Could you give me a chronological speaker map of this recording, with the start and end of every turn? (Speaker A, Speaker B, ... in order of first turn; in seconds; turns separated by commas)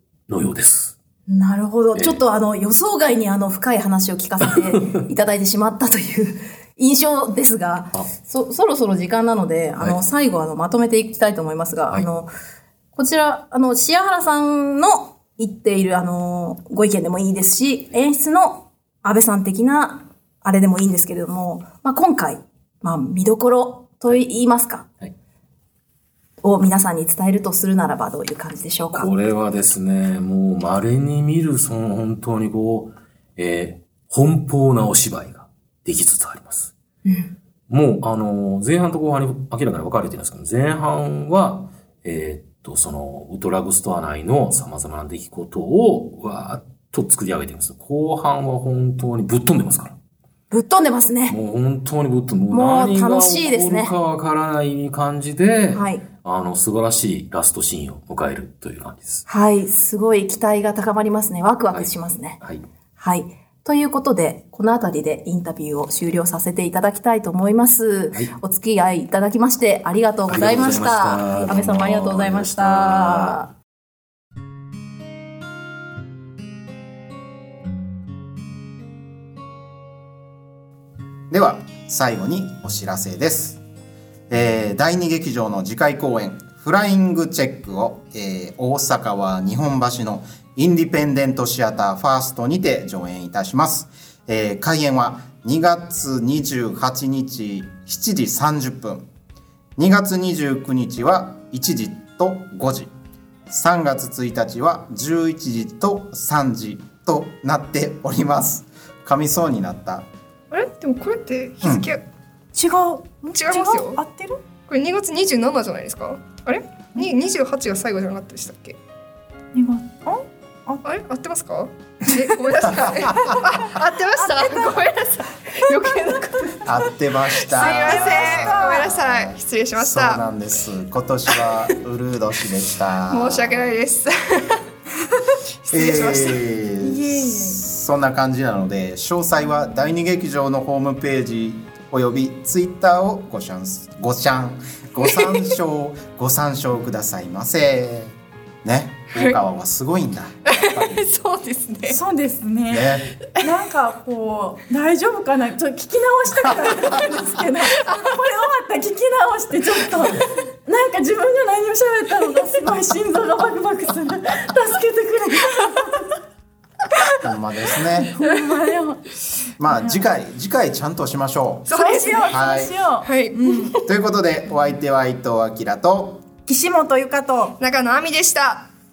Speaker A: 0.3-1.0, Speaker B: 1.3-12.3, Speaker A: 1.9-2.2, Speaker A: 4.5-5.0, Speaker B: 12.9-24.9, Speaker B: 26.4-29.1, Speaker A: 28.9-36.7, Speaker B: 37.0-37.3, Speaker A: 37.7-50.0, Speaker B: 50.5-51.4, Speaker A: 51.3-59.2, Speaker B: 52.5-53.9, Speaker B: 55.7-56.0, Speaker B: 59.3-62.4, Speaker A: 61.7-62.6, Speaker B: 63.0-73.5, Speaker A: 70.3-73.4, Speaker C: 81.3-83.6, Speaker C: 84.3-99.1, Speaker C: 99.8-102.9, Speaker C: 103.5-110.1, Speaker D: 110.5-112.0, Speaker C: 111.6-111.9, Speaker E: 112.5-114.4, Speaker D: 113.3-114.0, Speaker D: 114.7-118.8, Speaker E: 119.5-120.8, Speaker D: 120.8-126.7, Speaker E: 122.1-124.9, Speaker C: 122.9-123.4, Speaker E: 125.4-126.8, Speaker C: 126.7-133.7, Speaker D: 127.4-130.2, Speaker E: 127.5-128.9, Speaker D: 133.1-134.6, Speaker D: 135.6-136.4, Speaker C: 135.7-151.1, Speaker E: 136.8-137.6, Speaker D: 145.1-145.5, Speaker D: 149.1-149.4, Speaker D: 150.5-152.0, Speaker E: 151.9-166.2, Speaker C: 152.7-153.2, Speaker D: 157.8-158.0, Speaker E: 166.9-167.3, Speaker C: 167.2-168.1, Speaker E: 167.9-170.0, Speaker C: 169.6-171.7, Speaker D: 171.7-172.4, Speaker E: 171.7-173.8, Speaker C: 172.2-172.8, Speaker D: 173.0-173.8, Speaker C: 173.8-176.3, Speaker E: 176.5-177.6, Speaker D: 177.6-178.7